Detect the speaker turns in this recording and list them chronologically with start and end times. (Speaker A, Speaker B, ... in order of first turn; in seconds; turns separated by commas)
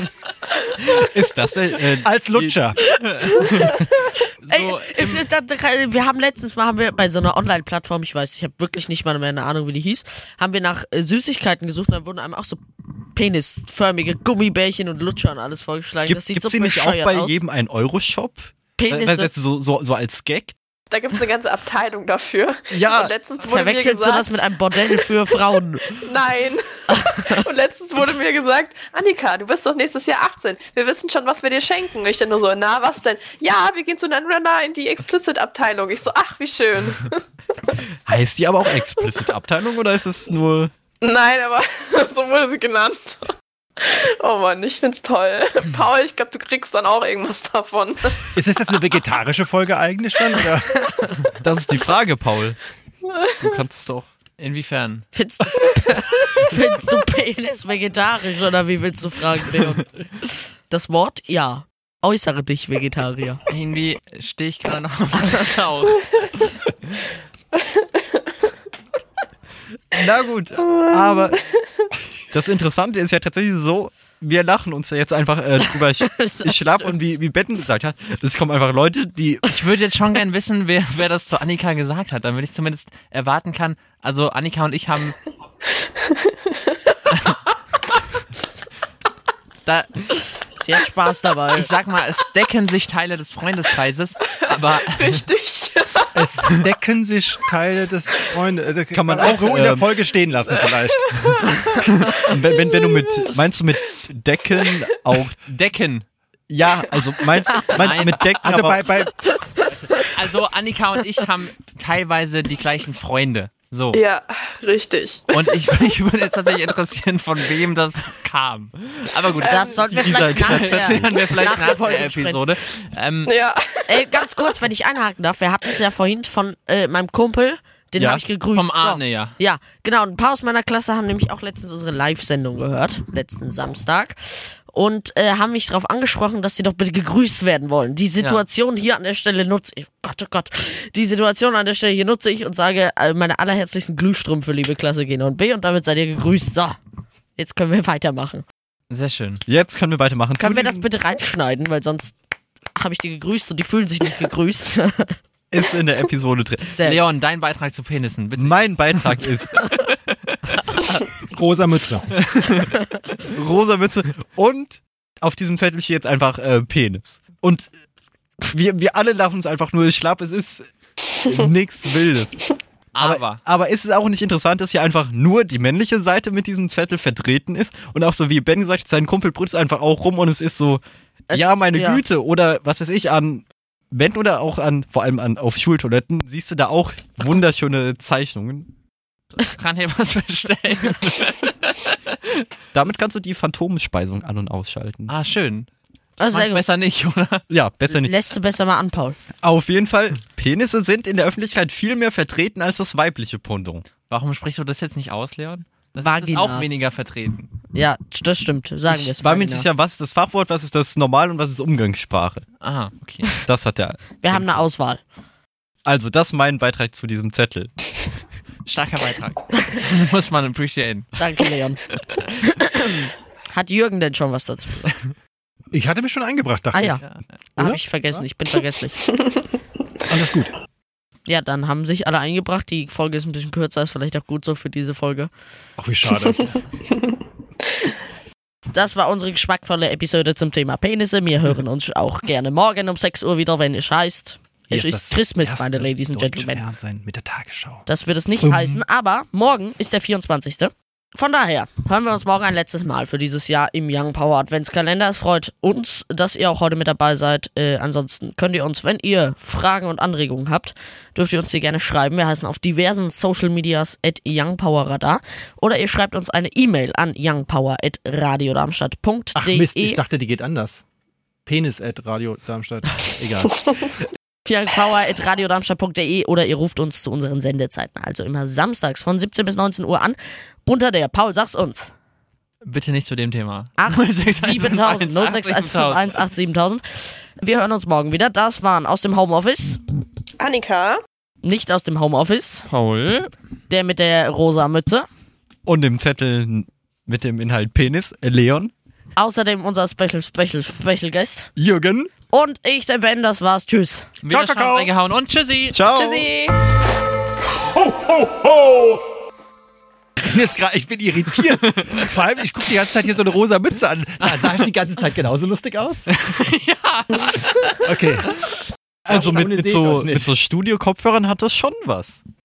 Speaker A: 0.9-2.6, Speaker B: 2.0-2.8, Speaker C: 3.1-5.2, Speaker D: 4.5-12.6, Speaker D: 13.1-17.4, Speaker A: 16.1-20.6, Speaker D: 18.8-19.3, Speaker E: 20.9-25.1, Speaker A: 22.7-23.1, Speaker D: 23.4-26.1, Speaker E: 25.9-37.2, Speaker D: 26.9-27.3, Speaker A: 38.1-40.7, Speaker E: 41.0-48.3, Speaker B: 48.4-50.9, Speaker A: 51.4-52.6, Speaker A: 53.4-54.1, Speaker C: 54.4-55.1, Speaker D: 55.1-63.4, Speaker C: 63.5-66.3, Speaker E: 67.5-68.5, Speaker A: 69.9-71.4, Speaker A: 72.3-79.5, Speaker D: 75.6-77.0, Speaker C: 79.5-85.2, Speaker E: 85.8-86.8, Speaker C: 87.1-87.4, Speaker C: 89.7-90.1, Speaker D: 90.6-91.7, Speaker C: 91.5-95.2, Speaker E: 94.3-96.2, Speaker B: 96.1-101.4, Speaker A: 98.9-99.9, Speaker E: 100.5-101.6, Speaker A: 102.2-105.4, Speaker C: 105.5-106.1, Speaker A: 106.5-108.9, Speaker C: 107.7-108.8, Speaker B: 108.4-109.1, Speaker C: 109.6-114.0, Speaker E: 113.9-115.4, Speaker C: 115.3-123.4, Speaker D: 119.5-122.5, Speaker A: 119.9-121.2, Speaker E: 123.2-124.3, Speaker D: 123.9-146.8, Speaker A: 128.0-128.2, Speaker C: 128.5-129.3, Speaker D: 147.4-148.4, Speaker C: 148.9-149.4, Speaker A: 149.5-150.9, Speaker D: 150.4-152.2, Speaker D: 152.8-155.2, Speaker A: 155.5-156.8, Speaker D: 156.7-157.0, Speaker C: 156.8-161.0, Speaker A: 158.4-159.6, Speaker B: 161.3-162.1, Speaker C: 162.2-162.8, Speaker A: 163.3-167.7, Speaker A: 168.5-170.7, Speaker A: 171.2-188.7, Speaker C: 172.9-173.4, Speaker D: 181.3-182.0, Speaker C: 189.4-192.4, Speaker A: 192.7-195.1, Speaker C: 195.1-195.7, Speaker D: 196.2-196.7, Speaker C: 196.2-197.4, Speaker A: 197.5-198.1, Speaker D: 197.9-199.2, Speaker A: 199.4-203.8, Speaker C: 204.1-207.5, Speaker D: 206.0-206.8, Speaker D: 207.7-209.7, Speaker A: 208.9-212.4, Speaker C: 212.6-213.3, Speaker A: 213.4-214.6, Speaker D: 214.2-215.0, Speaker A: 215.8-217.7, Speaker C: 218.7-221.1, Speaker D: 221.2-224.9, Speaker B: 225.7-227.0, Speaker D: 226.7-227.0, Speaker D: 227.6-229.2, Speaker E: 229.1-229.4, Speaker B: 230.1-230.5, Speaker D: 231.3-235.3, Speaker B: 235.8-236.6, Speaker E: 236.9-237.2, Speaker D: 238.7-246.6, Speaker B: 244.7-247.8, Speaker D: 247.8-270.0, Speaker B: 248.4-248.8, Speaker B: 269.3-270.8, Speaker B: 271.4-273.9, Speaker D: 274.4-281.9, Speaker C: 282.6-286.2, Speaker D: 283.8-289.8, Speaker E: 290.4-291.0, Speaker D: 291.4-292.7, Speaker C: 292.7-293.3, Speaker D: 293.7-295.1, Speaker A: 295.7-298.7, Speaker D: 299.2-301.5, Speaker B: 301.6-302.1, Speaker D: 302.3-304.1, Speaker C: 304.2-305.8, Speaker B: 304.3-304.9, Speaker A: 305.7-306.3, Speaker E: 305.9-306.6, Speaker B: 307.7-308.9, Speaker B: 310.2-316.1, Speaker C: 314.2-314.6, Speaker C: 316.1-318.3, Speaker B: 317.8-318.3, Speaker B: 319.1-320.3, Speaker A: 319.1-322.2